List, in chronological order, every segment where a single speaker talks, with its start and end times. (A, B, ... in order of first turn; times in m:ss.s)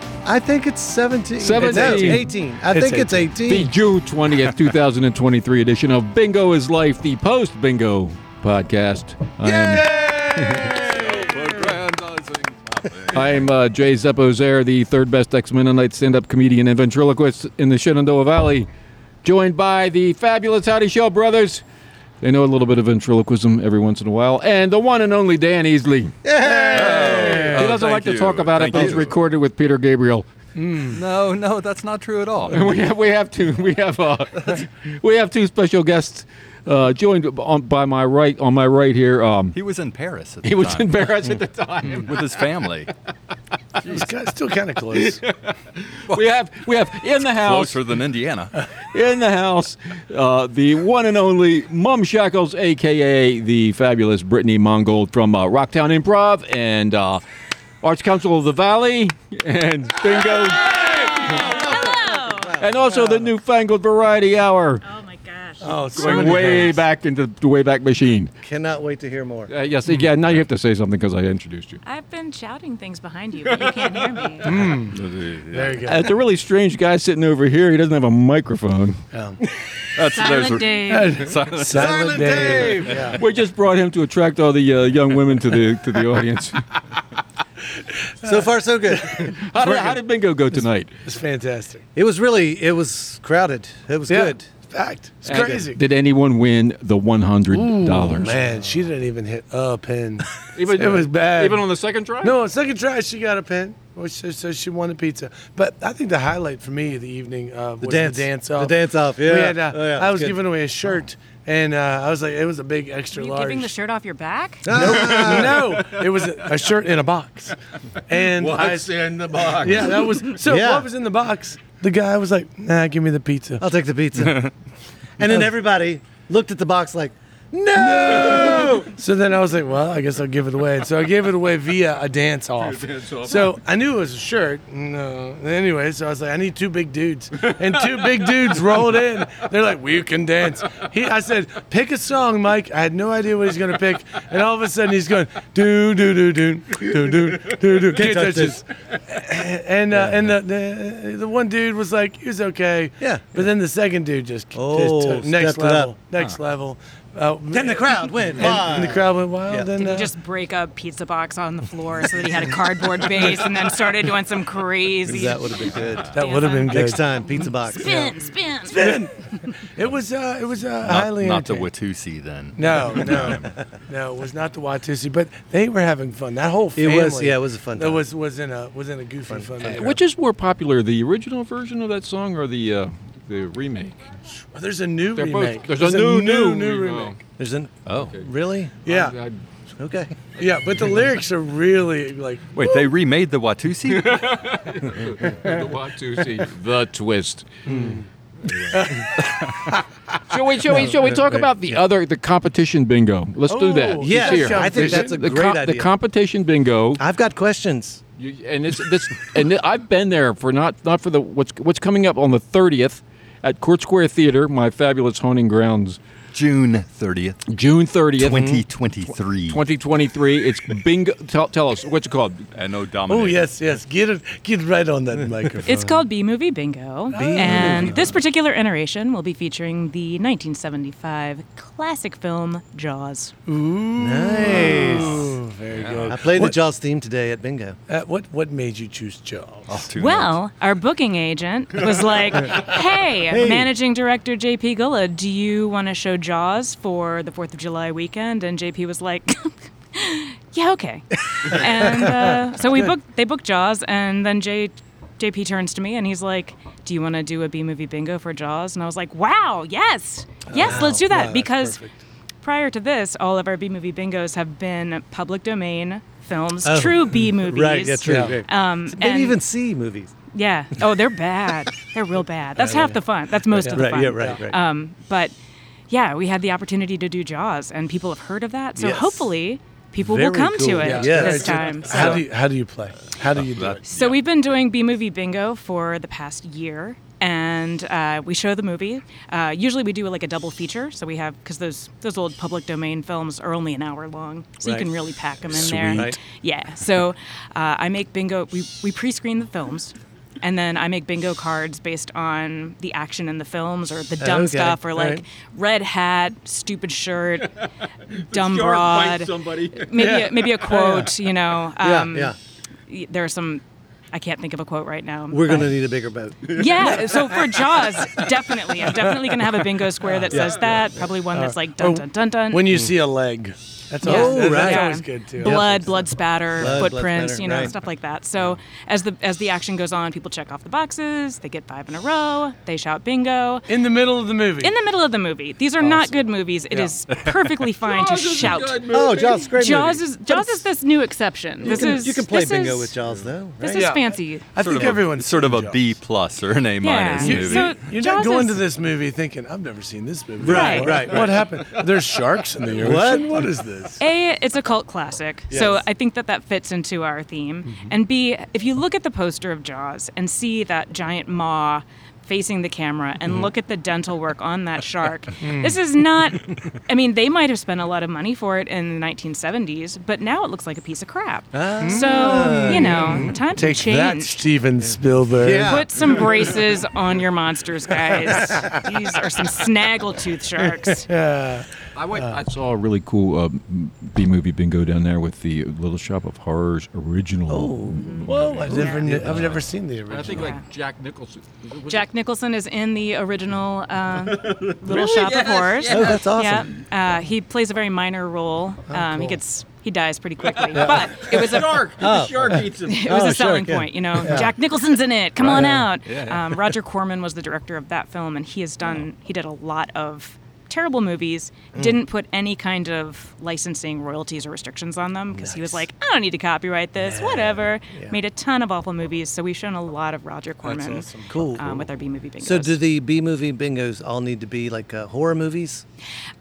0:00.2-0:03.7 A
0:01.4-0:02.3 B
0:01.6-0:03.3 C
0:03.4-0:10.8 B
0:09.4-0:11.5 C
0:10.8-0:13.2 D
0:13.1-0:18.7 B
0:19.2-0:21.6 B
0:22.2-0:26.2 B
0:26.2-0:27.7 A
0:26.4-0:27.8 C
0:26.7-0:29.1 D
0:27.5-0:30.3 B
0:28.7-0:29.1 A
0:30.6-0:31.0 C
0:30.9-0:32.8 D
0:32.4-0:39.6 B
0:39.5-0:41.1 D
0:40.4-0:42.1 B
0:41.9-0:42.9 D
0:43.8-0:45.2 C
0:44.9-0:47.8 B
0:47.3-0:48.6 D
0:48.9-0:57.2 B
0:57.8-1:01.7 B
1:00.2-1:02.6 E
1:01.4-1:02.4 A
1:02.5-1:04.8 B
1:02.8-1:03.3 C
1:04.8-1:06.3 E
1:05.6-1:06.8 C
1:05.9-1:08.3 B
1:06.0-1:06.5 A
1:08.4-1:09.5 A
1:09.5-1:11.8 B
1:11.8-1:14.7 E
1:13.6-1:14.1 B
1:14.4-1:15.0 C
1:14.5-1:15.8 D
1:15.5-1:16.1 C
1:15.8-1:19.0 B
1:19.1-1:19.4 C
1:19.9-1:22.1 D
1:20.1-1:21.2 E
1:20.9-1:23.2 C
1:21.7-1:23.1 A
1:22.3-1:26.6 B
1:28.2-1:29.6 A
1:29.2-1:30.0 C
1:29.2-1:30.9 B
1:31.0-1:31.8 C
1:32.0-1:34.5 A
1:34.1-1:35.8 C
1:35.2-1:38.4 B
1:35.3-1:35.6 A
1:37.5-1:41.7 C
1:40.6-1:42.4 B
1:42.2-1:53.7 C
1:47.8-1:50.4 A
1:53.1-1:54.8 E
1:54.6-1:55.8 A
1:54.7-1:57.6 C
1:58.1-2:03.7 C
1:58.3-2:00.2 B
2:00.4-2:00.9 A
2:03.6-2:04.5 A
2:05.2-2:08.9 A
2:07.8-2:40.1 C
2:12.9-2:13.4 B
2:27.9-2:28.6 A
2:29.9-2:30.3 A
2:33.0-2:33.4 A
2:34.5-2:35.9 A
2:37.5-2:39.7 A
2:39.8-2:46.8 E
2:45.0-2:46.1 A
2:46.1-2:47.0 C
2:46.7-2:48.2 A
2:47.6-2:48.9 E
2:48.6-2:51.7 C
2:50.8-2:53.5 D
2:52.6-3:00.0 C
2:56.7-2:58.0 A
2:59.3-2:59.9 A
2:59.7-3:04.0 B
3:04.5-3:07.2 C
3:05.1-3:07.2 B
3:07.4-3:08.8 A
3:07.9-3:08.1 D
3:08.0-3:08.2 B
3:08.8-3:09.2 C
3:08.8-3:09.4 B
3:09.8-3:10.1 A
3:10.4-3:12.9 C
3:12.5-3:14.4 D
3:13.9-3:17.6 B
3:17.6-3:18.0 C
3:17.7-3:18.0 A
3:18.5-3:18.8 B
3:18.7-3:19.5 C
3:20.3-3:27.0 B
3:23.5-3:25.2 C
3:24.0-3:25.9 A
3:27.0-3:28.0 A
3:28.2-3:36.0 B
3:36.3-3:37.4 D
3:37.5-3:38.6 B
3:38.2-3:39.6 D
3:39.5-3:42.4 B
3:42.5-3:43.4 D
3:43.1-3:46.0 C
3:45.6-3:53.3 E
3:47.1-3:48.1 C
3:47.1-3:48.2 A
3:53.5-3:56.6 C
3:54.0-3:55.4 A
3:55.7-3:56.1 D
3:56.0-3:57.8 A
3:57.9-3:59.8 C
3:59.7-4:00.4 D
4:00.0-4:21.8 E
4:03.3-4:03.7 A
4:20.5-4:22.0 C
4:20.5-4:21.0 A
4:22.4-4:29.4 E
4:26.6-4:30.1 A
4:28.0-4:28.4 C
4:30.3-4:35.3 E
4:32.6-4:33.0 C
4:33.5-4:34.4 C
4:33.6-4:34.6 A
4:35.9-4:42.2 E
4:38.8-4:39.3 A
4:40.0-4:42.2 A
4:40.8-4:43.8 C
4:43.3-4:44.2 D
4:43.9-5:07.6 E
4:54.6-4:54.9 A
4:55.4-4:56.2 A
5:04.2-5:05.2 A
5:08.2-5:10.2 B
5:08.2-5:12.3 E
5:10.0-5:11.1 C
5:11.8-5:12.4 A
5:12.9-5:15.8 E
5:15.3-5:17.0 A
5:16.5-5:22.8 E
5:16.5-5:17.4 B
5:20.0-5:26.0 C
5:20.3-5:20.6 A
5:24.0-5:25.9 A
5:24.0-5:33.7 E
5:26.6-5:27.7 A
5:33.7-5:34.7 C
5:34.6-5:43.0 E
5:35.8-5:36.1 C
5:37.8-5:39.6 B
5:38.9-5:40.5 A
5:41.6-5:43.9 A
5:43.6-5:44.5 E
5:43.7-5:45.9 C
5:44.6-5:47.7 D
5:46.8-5:48.6 E
5:47.2-5:54.0 C
5:50.4-5:51.4 A
5:50.4-5:51.0 E
5:52.7-5:53.5 A
5:54.0-6:14.4 E
5:55.5-5:55.8 A
6:05.4-6:05.8 C
6:11.5-6:13.3 A
6:11.8-6:15.8 C
6:15.4-6:16.3 A
6:15.6-6:21.1 E
6:18.3-6:18.8 A
6:20.9-6:22.4 C
6:21.9-6:32.0 B
6:27.5-6:28.2 A
6:27.9-6:29.0 E
6:28.2-6:30.6 C
6:28.8-6:29.4 A
6:30.3-6:30.6 E
6:31.9-6:41.9 E
6:34.3-6:36.4 B
6:35.9-6:36.7 A
6:38.9-6:39.4 C
6:40.5-6:43.3 B
6:42.0-6:44.5 A
6:42.8-7:02.8 E
6:45.4-6:45.9 A
6:51.7-6:52.0 A
6:55.3-6:55.8 A
6:57.8-6:58.2 A
7:00.6-7:01.6 C
7:01.3-7:01.9 A
7:02.4-7:05.8 A